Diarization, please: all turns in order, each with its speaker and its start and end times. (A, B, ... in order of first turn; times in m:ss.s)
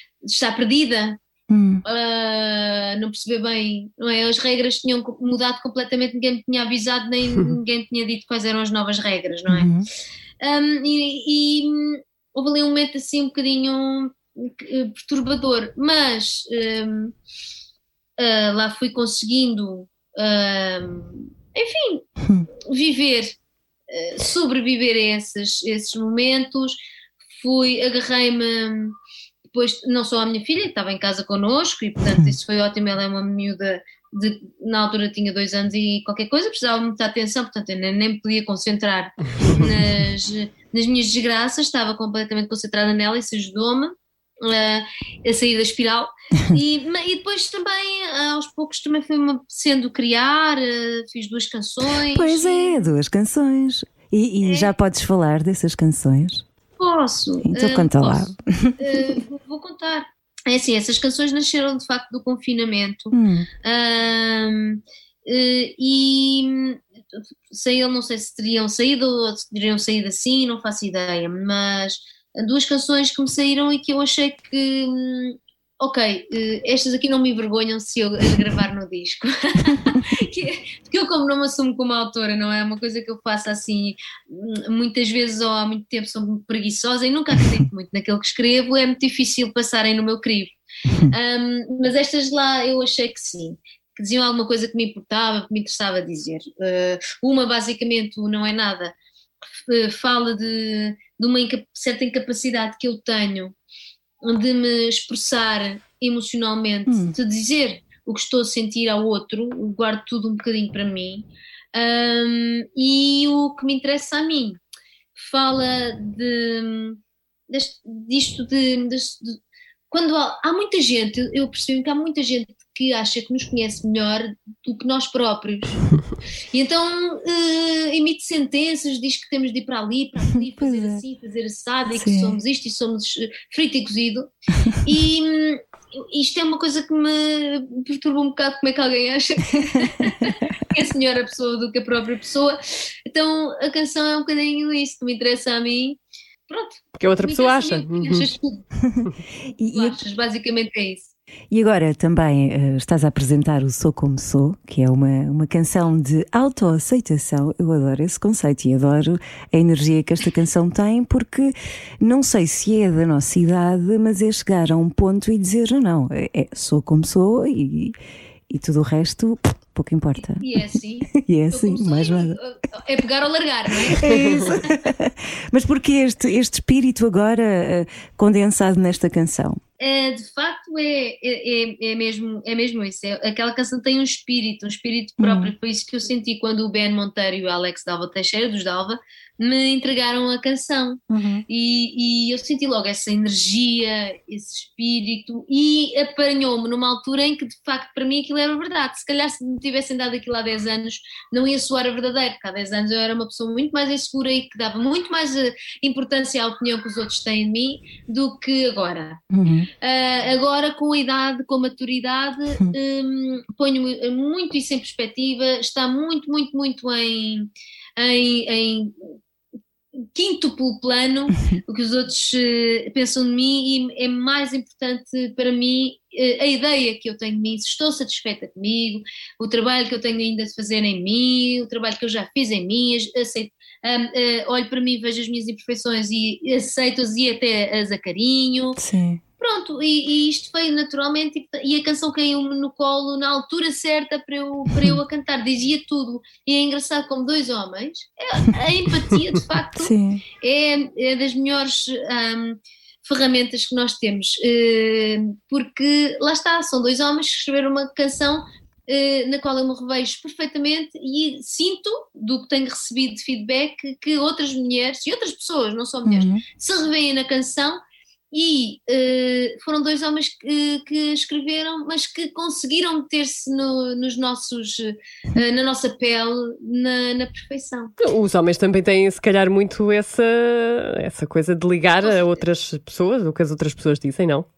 0:00.2-0:01.2 A
0:01.5-0:01.8 B
0:01.8-0:09.7 A
0:09.5-0:09.9 B
0:10.4-0:17.2 A
0:18.2-0:22.1 A
0:22.6-0:23.4 A
0:23.9-0:26.8 A
0:27.4-0:29.0 A
0:29.5-0:52.9 A
0:32.0-0:32.4 B
0:52.0-0:56.4 B
0:54.4-0:54.7 A
0:56.8-1:38.9 A
0:57.4-0:59.2 B
1:03.1-1:03.5 B
1:30.9-1:31.1 B
1:39.7-1:43.6 A
1:44.2-1:54.6 A
1:46.9-1:47.2 B
1:55.2-1:59.4 A
1:59.9-2:06.0 A
2:06.5-2:28.6 A
2:10.4-2:11.0 B
2:12.0-2:12.4 B
2:27.0-2:28.3 C
2:28.8-2:30.0 B
2:29.7-2:31.1 A
2:31.5-2:48.0 B
2:48.5-2:52.4 B
2:50.4-2:54.6 A
2:53.9-2:59.6 B
2:59.8-3:29.2 A
3:05.2-3:05.5 B
3:11.1-3:11.4 B
3:29.3-3:29.7 B
3:29.8-3:39.1 A
3:40.1-3:58.8 A
3:58.8-3:59.2 B
3:59.4-4:27.8 A
4:09.8-4:10.2 B
4:26.1-4:26.4 B
4:28.3-4:38.0 A
4:38.0-4:44.5 C
4:42.0-4:42.4 A